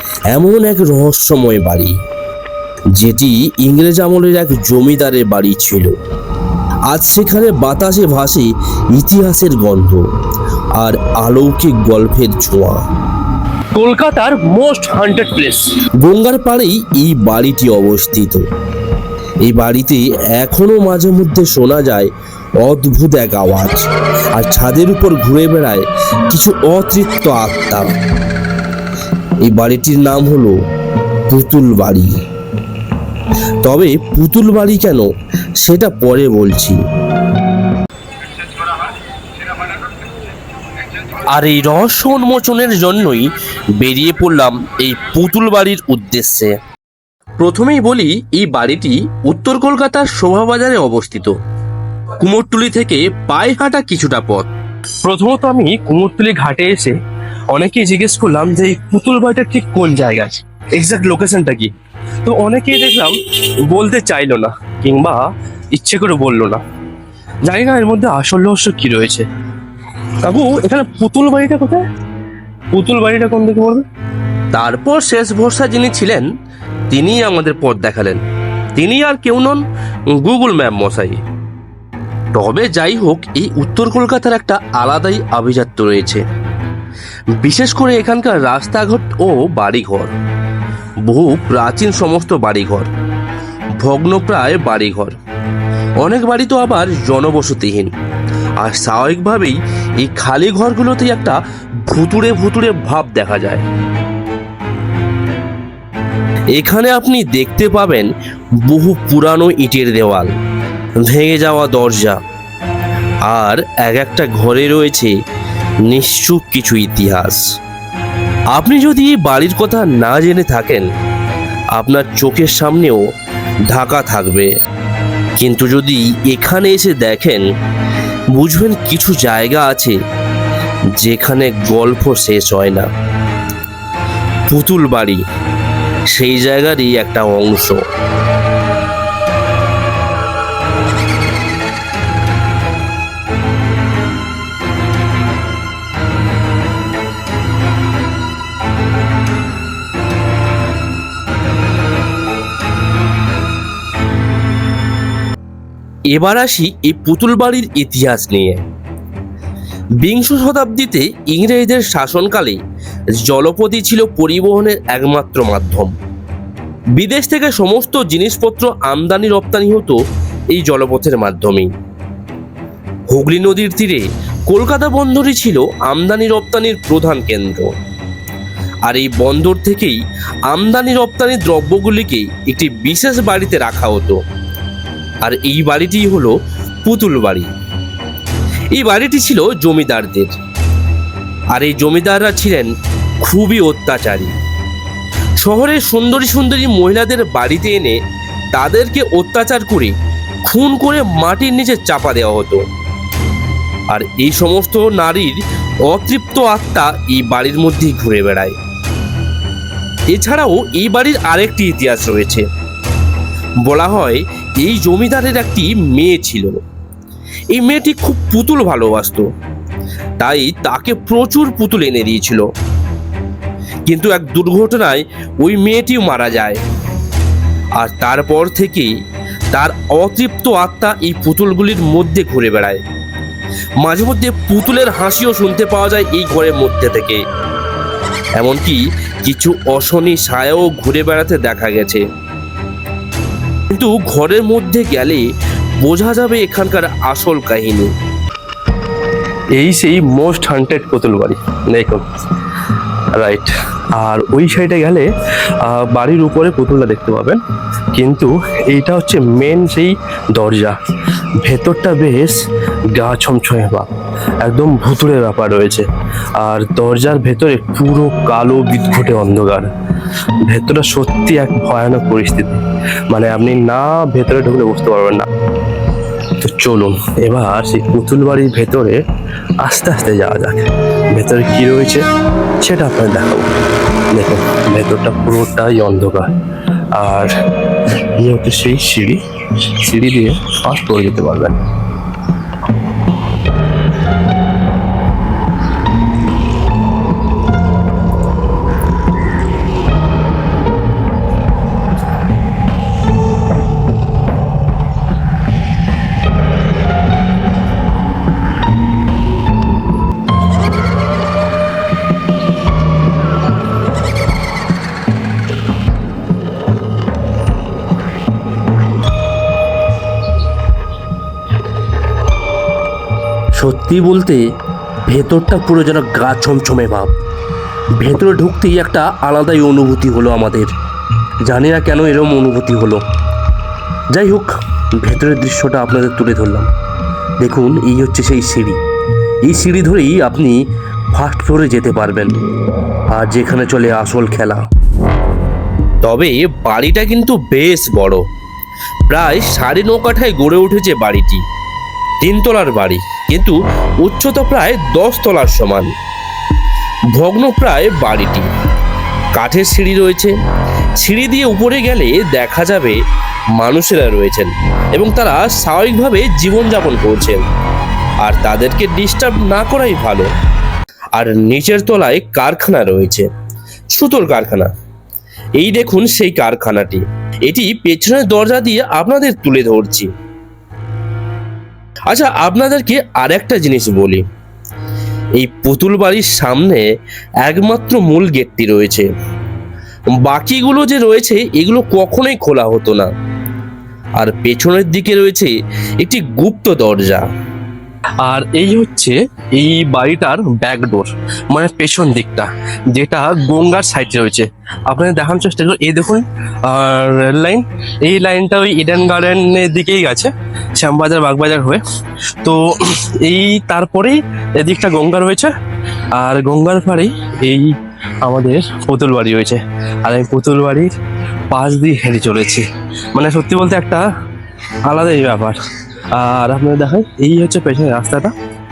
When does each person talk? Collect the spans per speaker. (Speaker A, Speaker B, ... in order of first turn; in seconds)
Speaker A: 0.3-2.0, 3.0-5.9, 6.9-10.0, 10.8-12.8, 13.8-18.4, 19.4-22.1, 22.6-27.9, 29.4-30.6, 31.3-32.1, 33.6-35.1, 35.6-36.8, 41.3-46.6, 47.4-51.4, 52.2-54.5, 55.1-55.6, 60.0-61.7, 64.0-64.3, 70.3-70.9, 74.5-76.3, 76.9-78.2, 78.8-81.2, 82.3-86.2, 87.4-90.1, 91.0-92.9, 93.8-95.2, 96.0-97.9, 98.6-103.7, 106.5-108.1, 108.6-110.3, 111.0-112.2, 113.3-115.1, 115.9-117.4, 118.5-120.9, 121.8-123.0, 123.7-124.5, 125.4-127.5, 128.3-130.0, 131.0-132.9, 134.5-135.2, 136.1-137.8, 156.1-158.6, 160.0-162.6, 163.2-165.9, 167.0-170.0, 170.5-171.7, 173.1-177.7, 178.9-180.0, 180.5-184.2, 185.2-187.5, 188.7-190.3, 191.5-194.3, 195.4-198.0, 198.5-199.9, 200.5-202.6, 203.9-208.6, 210.1-212.4, 213.6-216.6, 217.5-219.3, 220.2-222.5, 223.9-226.6, 227.8-228.9, 229.5-232.8, 233.8-237.2, 238.4-242.0, 243.7-245.2, 245.8-247.9, 265.2-265.6, 274.6-275.1, 276.7-277.0, 323.6-324.4, 325.1-327.1, 328.0-330.7, 331.4-333.0, 334.1-336.7, 337.4-338.8, 339.4-340.6, 341.1-342.4, 343.1-344.7, 346.0-348.2, 349.1-351.4, 352.2-355.9, 357.1-358.5, 359.4-360.3, 361.0-363.0, 363.6-367.4, 368.2-370.3, 371.1-373.3, 373.9-374.7, 375.6-380.1, 382.1-384.2, 385.4-386.9, 387.4-389.1, 390.2-393.1, 394.2-397.3, 398.3-399.1, 400.2-401.1, 401.6-402.0, 403.7-404.3, 405.4-406.2
Speaker B: 13.8-15.4, 55.1-57.0, 57.5-61.7, 62.3-63.1, 63.7-66.6, 67.5-69.3, 70.3-71.8, 72.7-73.8, 249.6-252.0, 253.2-255.1, 255.6-257.4, 258.0-260.7, 261.4-262.3, 262.9-263.9, 264.4-265.8, 266.4-269.6, 270.5-272.6, 273.1-275.2, 276.4-279.0, 279.6-280.6, 281.1-282.0, 282.6-283.5, 284.2-286.3, 287.0-287.3, 288.2-289.2, 289.8-291.6, 398.2-401.0, 401.6-411.8, 412.4-415.5, 416.2-417.7, 418.2-420.9, 421.5-422.6, 423.1-424.1, 424.9-425.6, 426.1-428.3